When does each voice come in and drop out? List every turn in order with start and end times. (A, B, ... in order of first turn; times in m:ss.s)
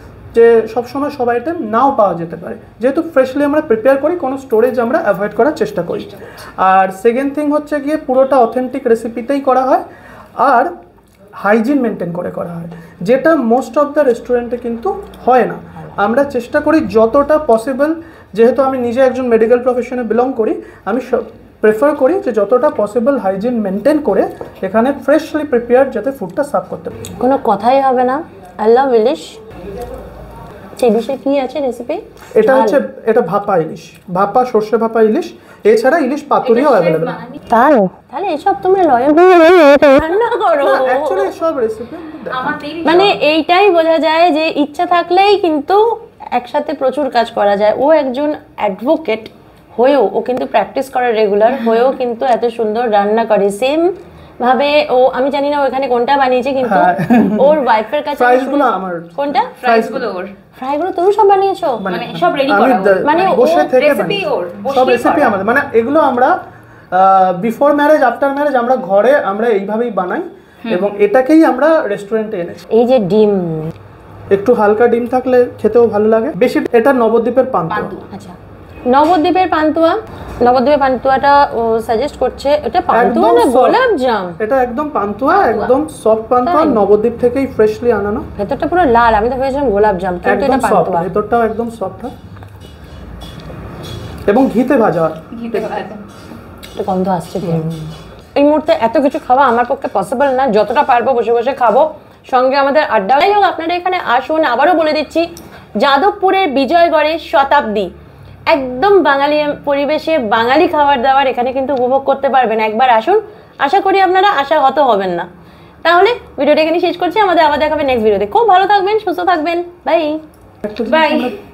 0:00.3-0:09.8 A
0:06.0-0:06.4 B
0:10.4-0:10.7 A
0:11.4-0:26.9 A
0:27.2-0:29.4 C
0:30.8-0:32.8 C
0:32.4-0:37.2 A
0:36.4-0:37.4 B
0:37.5-0:41.3 C
0:40.6-0:43.2 A
0:42.3-0:43.2 B
0:42.8-0:59.5 C
0:56.6-0:57.6 A
0:58.1-1:00.1 A
0:59.6-1:00.3 B
1:00.6-1:01.9 C
1:01.8-1:06.4 A
1:01.9-1:05.4 B
1:03.0-1:03.7 C
1:06.9-1:12.6 A
1:12.7-1:13.7 C
1:14.3-1:17.9 A
1:17.7-1:18.1 B
1:18.9-1:24.4 C
1:22.9-1:23.8 A
1:24.4-1:28.3 A
1:25.3-1:25.7 B
1:26.4-1:26.8 C
1:28.4-1:31.1 C
1:30.2-1:32.1 A
1:34.3-1:35.8 A
1:35.3-1:36.0 B
1:36.7-1:37.7 C
1:37.4-1:37.8 A
1:38.4-1:45.2 C
1:45.8-1:47.9 C
1:48.5-1:55.3 C
1:55.8-2:00.2 C
2:00.6-2:01.4 A
2:00.9-2:01.3 B